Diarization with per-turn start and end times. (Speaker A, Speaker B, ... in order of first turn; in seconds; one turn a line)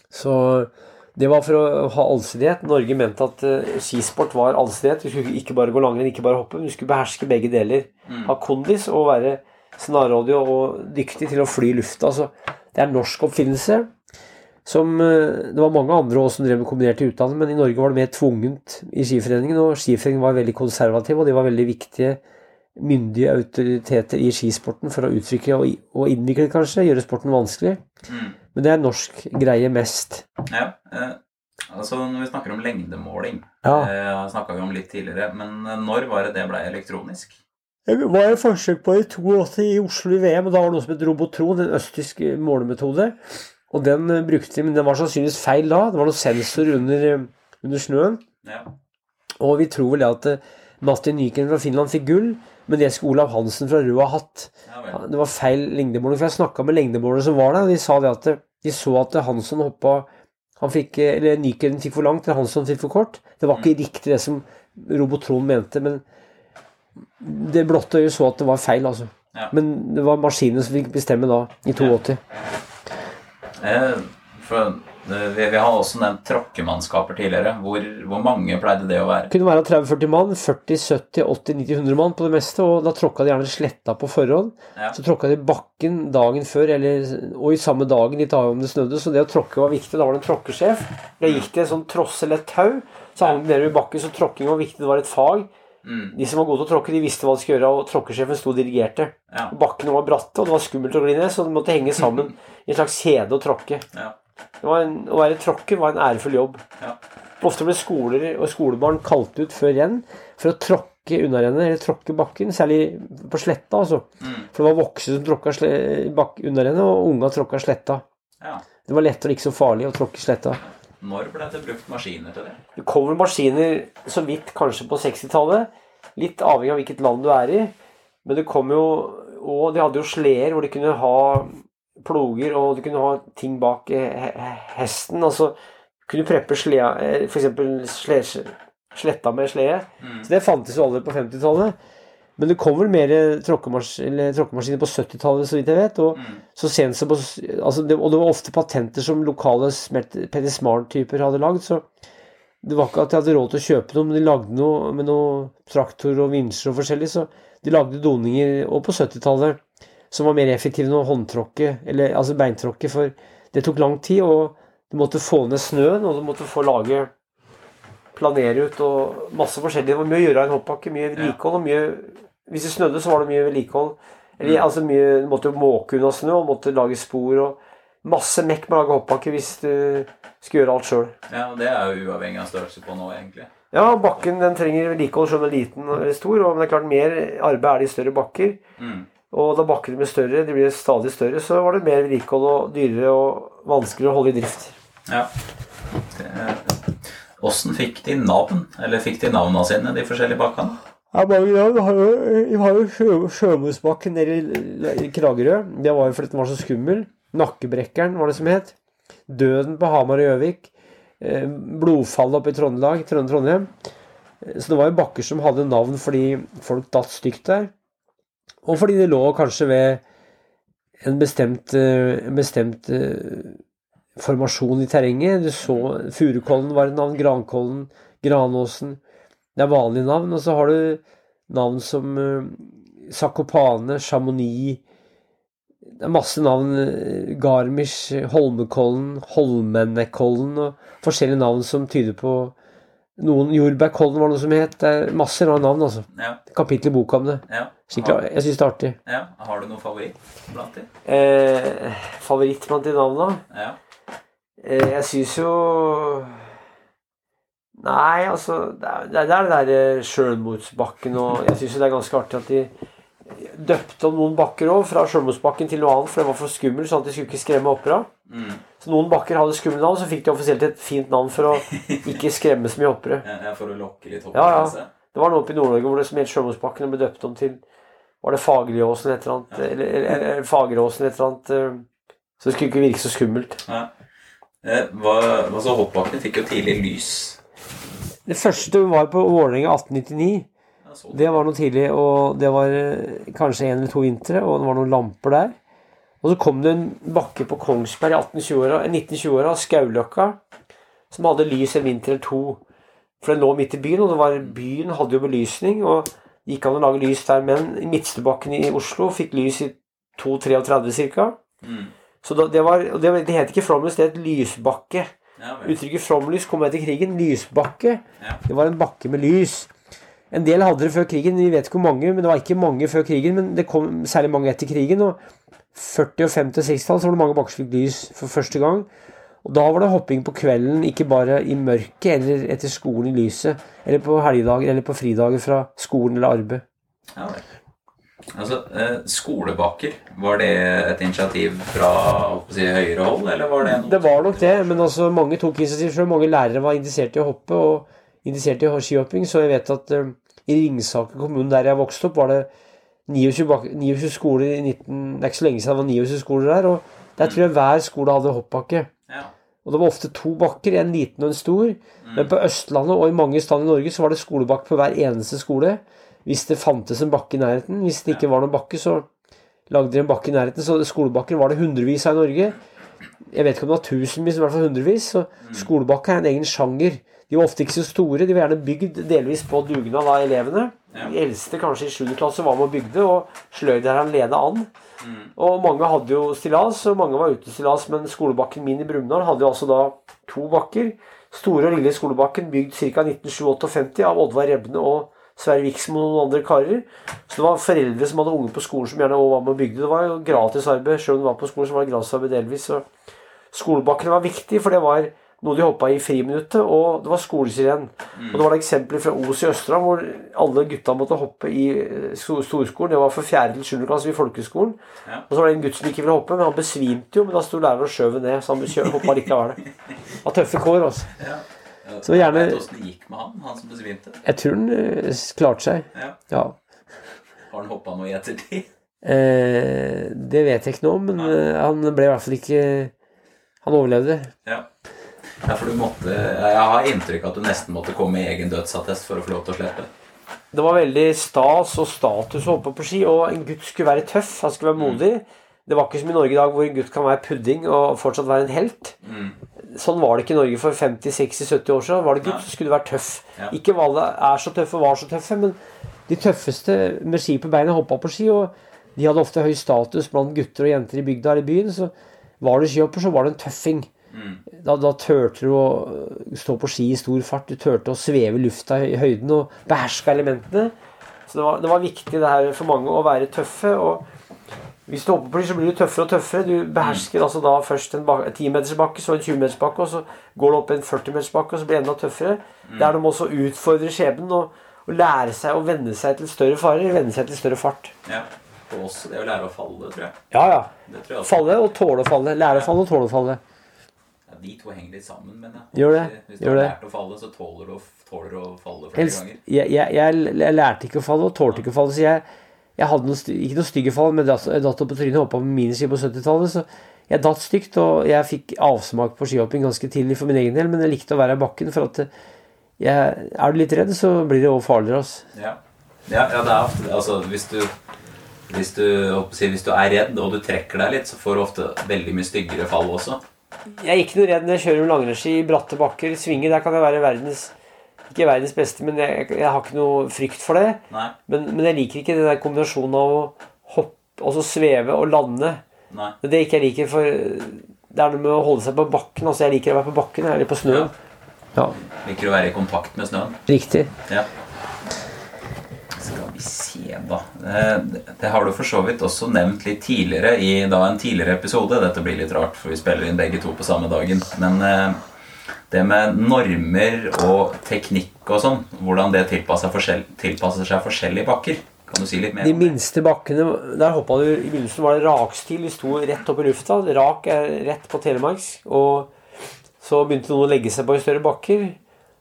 Speaker A: 0.1-13.9
Speaker B: 8.1-8.3
Speaker A: 14.6-22.2
Speaker A: 22.8-27.8
Speaker B: 28.1-28.4
Speaker A: 28.5-30.2
Speaker B: 30.5-37.4
Speaker A: 33.6-33.9
Speaker A: 37.9-48.2
Speaker B: 48.4-48.7
Speaker A: 49.4-60.1
Speaker B: 54.7-55.0
Speaker A: 60.6-66.0
Speaker A: 67.2-72.2
Speaker B: 73.6-79.3
Speaker A: 79.3-95.5
Speaker B: 95.8-96.2
Speaker A: 96.1-103.8
Speaker A: 104.6-106.6
Speaker A: 107.4-118.0
Speaker B: 114.2-114.5
Speaker A: 118.8-120.6
Speaker B: 121.0-122.6
Speaker A: 122.8-127.7
Speaker A: 128.2-135.5
Speaker A: 136.1-141.8
Speaker B: 140.0-140.3
Speaker A: 142.4-151.9
Speaker B: 146.2-146.4
Speaker A: 152.6-167.1
Speaker A: 168.1-181.1
Speaker B: 181.3-183.5
Speaker A: 183.7-188.6
Speaker B: 188.8-189.1
Speaker A: 189.3-194.7
Speaker B: 196.1-200.8
Speaker A: 201.1-208.7
Speaker A: 209.3-213.7
Speaker A: 214.4-217.7
Speaker A: 218.6-220.0
Speaker A: 221.0-223.6
Speaker A: 224.2-229.0
Speaker B: 225.6-225.9
Speaker A: 229.6-234.8
Speaker A: 236.0-242.5
Speaker A: 243.2-249.0
Speaker B: 246.1-246.4
Speaker B: 247.5-248.2
Speaker B: 249.1-250.9
Speaker A: 251.0-253.4
Speaker B: 253.5-253.8
Speaker A: 254.6-256.5
Speaker A: 257.8-262.7
Speaker A: 263.3-268.1
Speaker B: 268.3-268.6
Speaker A: 268.8-273.2
Speaker B: 271.6-272.2
Speaker B: 273.2-274.9
Speaker A: 274.3-277.6
Speaker A: 278.2-281.9
Speaker A: 282.4-283.6
Speaker B: 283.6-283.9
Speaker B: 284.6-287.4
Speaker A: 288.2-290.5
Speaker B: 290.8-291.4
Speaker A: 291.1-295.5
Speaker A: 296.2-300.4
Speaker A: 301.1-302.6
Speaker A: 303.2-311.4
Speaker B: 311.6-311.9
Speaker A: 312.2-315.1
Speaker B: 315.4-315.8
Speaker A: 315.6-319.7
Speaker A: 320.3-325.2
Speaker A: 325.7-328.9
Speaker A: 329.4-336.6
Speaker B: 337.1-337.4
Speaker B: 338.3-344.9
Speaker A: 343.6-352.5
Speaker A: 353.1-358.9
Speaker B: 359.1-359.3
Speaker A: 359.6-369.1
Speaker B: 362.0-362.3
Speaker A: 369.7-372.6
Speaker A: 373.3-384.7
Speaker B: 375.4-375.7
Speaker B: 385.0-385.3
Speaker A: 385.4-402.9
Speaker A: 403.5-419.6
Speaker B: 408.1-408.4
Speaker B: 418.8-419.1
Speaker A: 420.2-421.1
Speaker B: 421.2-424.2
Speaker A: 422.0-422.6
Speaker A: 424.2-426.6
Speaker B: 427.5-428.7
Speaker A: 429.0-432.9
Speaker A: 433.6-434.3
Speaker B: 435.4-439.9
Speaker A: 440.5-449.0
Speaker B: 449.0-449.4
Speaker A: 449.6-455.6
Speaker A: 456.1-463.9
Speaker B: 464.1-464.4
Speaker A: 464.5-470.7
Speaker A: 471.3-474.0
Speaker A: 474.9-487.9
Speaker B: 482.6-482.9
Speaker B: 488.1-490.2
Speaker A: 490.3-493.4
Speaker B: 490.9-491.5
Speaker B: 494.3-499.4
Speaker A: 495.7-496.7
Speaker A: 498.9-502.2
Speaker A: 502.8-512.1
Speaker A: 512.8-515.3
Speaker B: 515.3-517.7
Speaker B: 518.5-523.2
Speaker A: 523.7-527.5
Speaker A: 528.1-535.6
Speaker B: 530.9-531.1
Speaker B: 535.9-536.1
Speaker A: 536.2-540.9
Speaker B: 540.6-540.9
Speaker B: 541.9-543.4
Speaker A: 543.5-543.9
Speaker B: 546.0-555.0
Speaker B: 555.7-562.8
Speaker A: 562.4-569.1
Speaker A: 569.8-571.8